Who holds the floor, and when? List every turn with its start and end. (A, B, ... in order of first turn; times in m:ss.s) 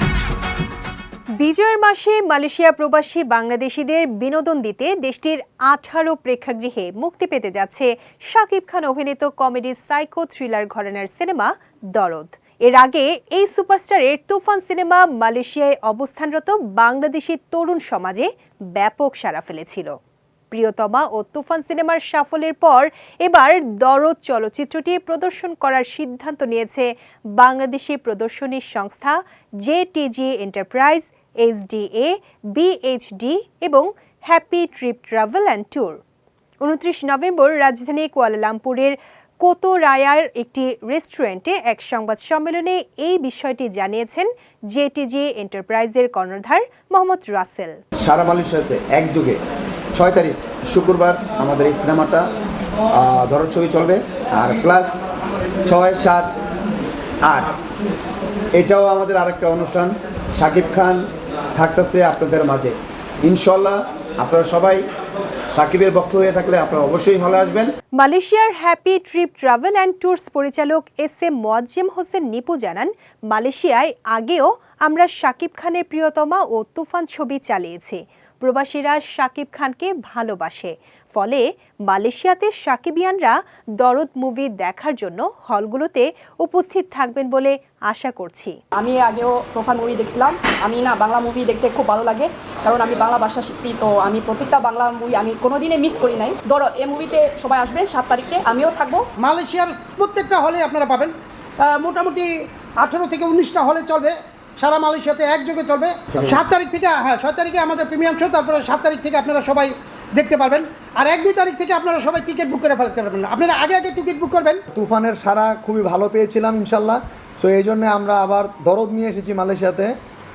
0:01.4-0:20.0 A
0:20.5-0:36.0 A
0:36.6-0:47.8 A
0:48.0-0:49.4 B
0:49.9-0:52.3 B
0:52.9-0:55.0 B
0:55.6-0:56.3 B
0:57.2-0:57.5 B
0:58.6-1:04.8 B
1:05.5-1:07.7 B
1:08.0-1:28.5 A
1:28.8-1:39.0 C
1:39.2-1:54.6 D
1:54.7-1:59.9 E